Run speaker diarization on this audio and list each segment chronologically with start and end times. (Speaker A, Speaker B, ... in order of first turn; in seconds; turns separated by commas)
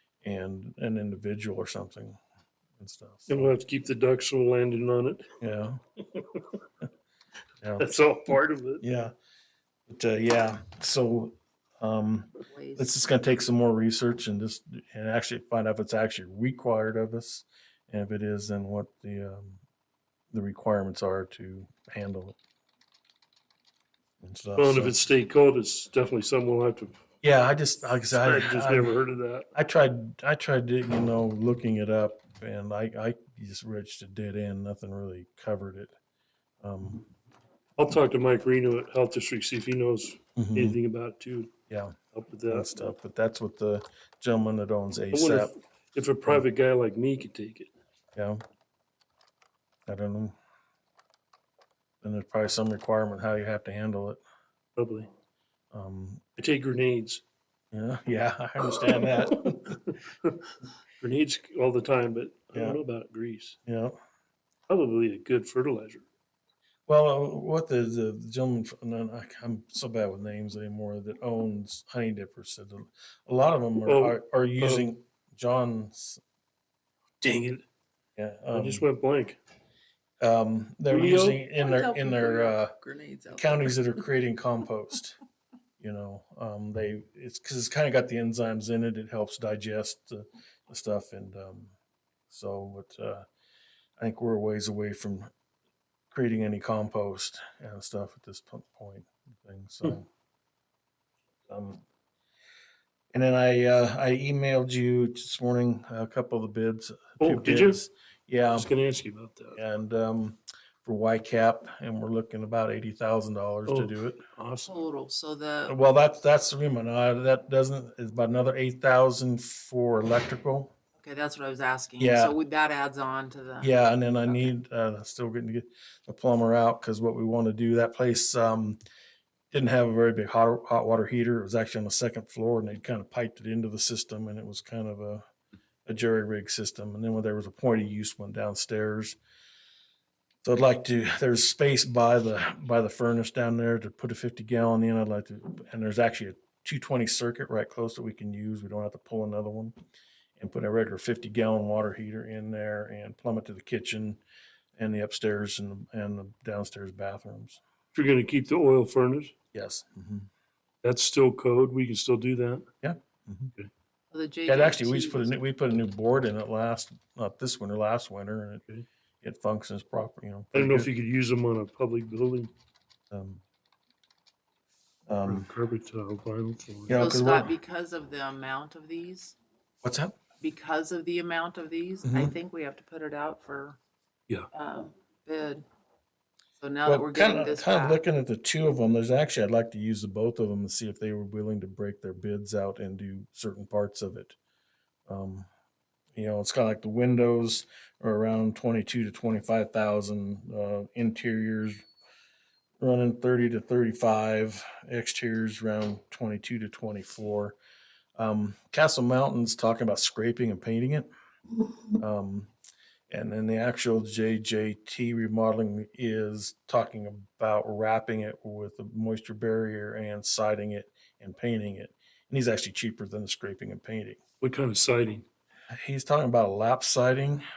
Speaker A: 0.2-2.2, Speaker A: 2.8-3.5, Speaker B: 3.3-5.3, Speaker A: 5.4-5.8, Speaker B: 7.8-8.8, Speaker A: 8.8-9.1, Speaker A: 9.9-19.6, Speaker C: 12.5-13.1, Speaker A: 20.3-22.4, Speaker A: 24.2-25.0, Speaker B: 24.6-27.0, Speaker A: 27.2-28.9, Speaker B: 28.1-29.5, Speaker A: 29.6-35.9, Speaker A: 36.6-37.0, Speaker B: 37.8-41.5, Speaker A: 40.4-40.8, Speaker A: 41.7-42.0, Speaker B: 42.1-42.8, Speaker A: 42.5-45.5, Speaker B: 45.1-47.7, Speaker A: 48.1-48.4, Speaker A: 49.9-50.4, Speaker A: 52.0-54.2, Speaker B: 54.8-55.1, Speaker A: 55.7-56.3, Speaker B: 56.4-57.2, Speaker A: 57.7-59.8, Speaker B: 58.7-63.6, Speaker A: 62.5-62.8, Speaker A: 63.7-64.0, Speaker B: 64.7-66.0, Speaker A: 66.9-76.2, Speaker B: 73.8-74.9, Speaker B: 77.2-77.6, Speaker A: 78.2-78.8, Speaker B: 78.5-79.4, Speaker A: 80.2-82.7, Speaker B: 80.9-81.4, Speaker C: 81.6-84.1, Speaker A: 83.3-85.2, Speaker A: 85.8-91.7, Speaker A: 92.3-93.3, Speaker A: 94.0-95.3, Speaker A: 96.1-100.1, Speaker A: 101.5-101.8, Speaker A: 103.1-108.7, Speaker B: 107.2-107.8, Speaker B: 108.5-109.6, Speaker A: 109.6-114.2, Speaker B: 113.7-114.7, Speaker C: 114.7-115.8, Speaker A: 115.7-120.7, Speaker C: 121.0-124.5, Speaker A: 122.0-122.4, Speaker A: 123.6-128.8, Speaker A: 129.5-135.2, Speaker A: 135.9-139.2, Speaker A: 140.4-149.7, Speaker A: 150.4-154.2, Speaker A: 154.8-157.6, Speaker B: 157.9-159.3, Speaker A: 159.5-160.3, Speaker B: 160.8-162.7, Speaker A: 162.8-163.5, Speaker C: 164.1-165.3, Speaker A: 164.5-168.6, Speaker A: 169.2-170.9, Speaker B: 170.5-172.5, Speaker A: 173.1-173.4, Speaker A: 175.1-175.5, Speaker B: 175.2-177.0, Speaker A: 176.9-177.5, Speaker C: 176.9-179.4, Speaker A: 179.8-180.2, Speaker C: 180.4-183.8, Speaker A: 182.1-182.3, Speaker C: 184.5-185.7, Speaker C: 186.6-188.0, Speaker A: 186.8-194.4, Speaker A: 195.1-195.5, Speaker A: 196.2-201.8, Speaker A: 202.8-207.6, Speaker A: 208.2-211.1, Speaker A: 212.0-212.5, Speaker A: 213.1-224.2, Speaker B: 224.4-225.3, Speaker A: 225.7-227.4